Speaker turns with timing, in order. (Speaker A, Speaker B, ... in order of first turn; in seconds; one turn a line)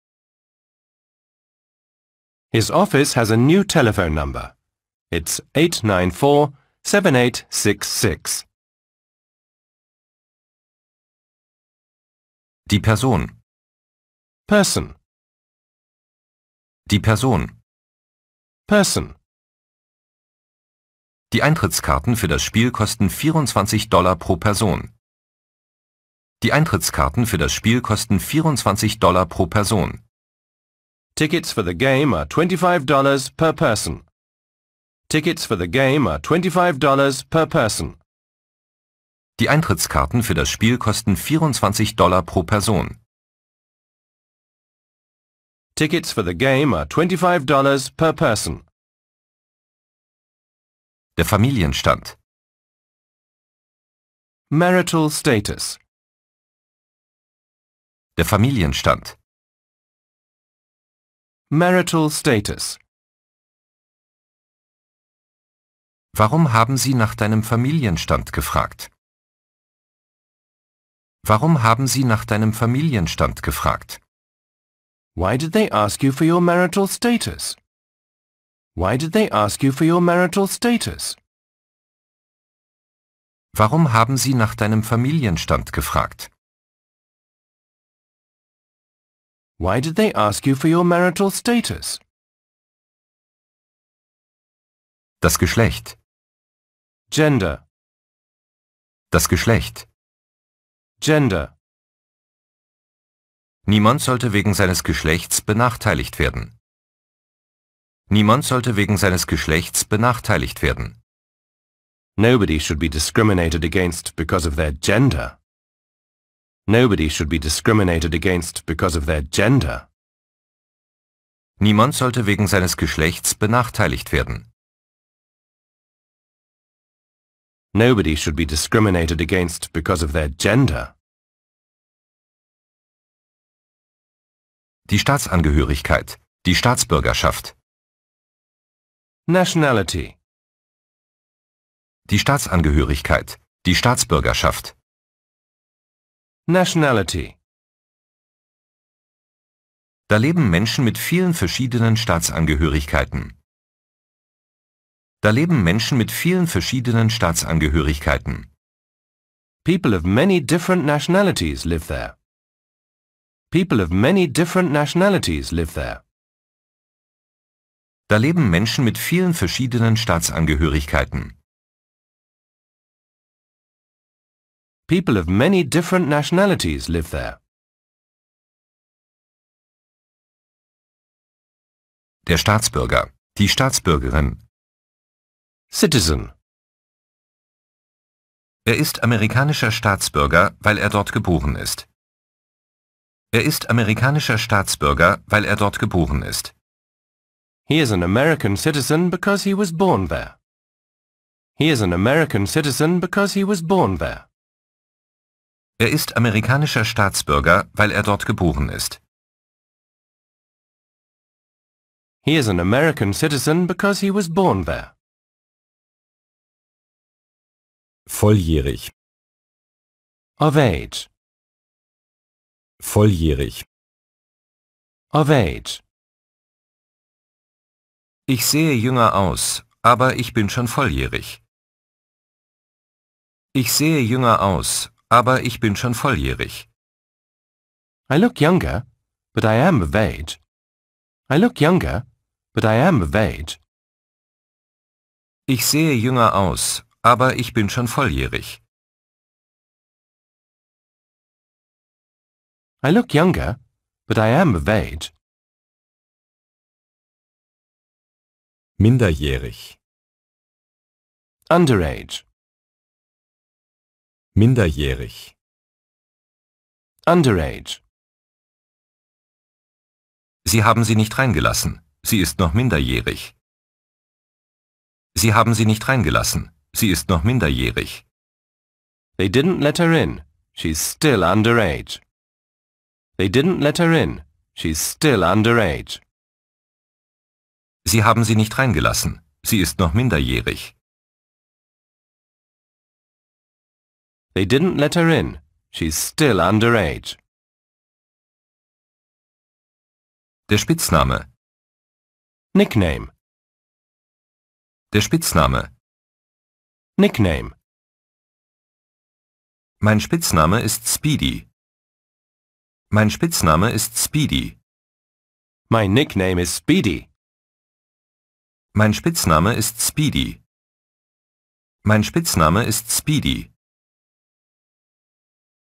Speaker A: 2.5-4.5
Speaker A: 5.1-8.5
Speaker B: 12.7-13.3
Speaker A: 14.5-15.0
Speaker B: 16.9-17.6
Speaker A: 18.7-19.2
Speaker B: 21.3-24.9
Speaker B: 26.4-30.0
Speaker A: 31.2-34.1
Speaker A: 35.1-38.0
Speaker B: 39.4-43.0
Speaker A: 45.8-48.7
Speaker B: 51.2-52.2
Speaker A: 54.5-55.8
Speaker B: 58.2-59.2
Speaker A: 61.5-62.8
Speaker B: 66.1-68.9
Speaker B: 71.2-74.0
Speaker A: 75.2-77.6
Speaker A: 78.8-81.2
Speaker B: 83.5-86.3
Speaker A: 89.6-92.0
Speaker B: 95.2-96.0
Speaker A: 97.1-97.7
Speaker B: 99.1-99.9
Speaker A: 101.0-101.6
Speaker B: 103.7-106.5
Speaker B: 108.1-111.0
Speaker A: 112.2-115.4
Speaker A: 116.7-119.9
Speaker B: 121.6-124.5
Speaker A: 127.7-130.9
Speaker B: 134.9-137.6
Speaker A: 139.3-140.2
Speaker B: 142.1-144.8
Speaker A: 146.5-147.4
Speaker B: 150.1-153.4
Speaker B: 155.2-158.5
Speaker A: 159.6-162.2
Speaker A: 163.5-166.0
Speaker B: 168.1-171.4
Speaker A: 174.9-177.4
Speaker B: 182.2-184.4
Speaker A: 185.7-186.3
Speaker B: 188.7-191.9
Speaker B: 193.3-196.5
Speaker A: 197.7-200.4
Speaker A: 201.6-204.3
Speaker B: 205.8-209.0
Speaker A: 212.2-214.9
Speaker B: 218.1-218.9
Speaker A: 220.4-221.1
Speaker B: 222.8-223.7
Speaker A: 225.1-225.8
Speaker B: 228.3-231.4
Speaker B: 233.5-236.7
Speaker A: 238.1-240.4
Speaker A: 241.3-243.6
Speaker B: 245.5-248.6
Speaker A: 252.8-255.1
Speaker B: 258.8-259.8
Speaker A: 261.5-262.2
Speaker B: 264.4-265.4
Speaker A: 267.1-267.8
Speaker B: 270.4-273.4
Speaker B: 275.1-278.0
Speaker A: 279.2-282.0
Speaker A: 283.2-286.0
Speaker B: 287.9-290.8
Speaker A: 294.3-297.2
Speaker B: 300.5-301.3
Speaker A: 302.5-303.1
Speaker B: 304.9-305.7
Speaker A: 307.0-307.6
Speaker B: 309.8-311.5
Speaker B: 312.9-314.6
Speaker A: 315.7-317.1
Speaker B: 318.7-320.4
Speaker B: 321.8-323.5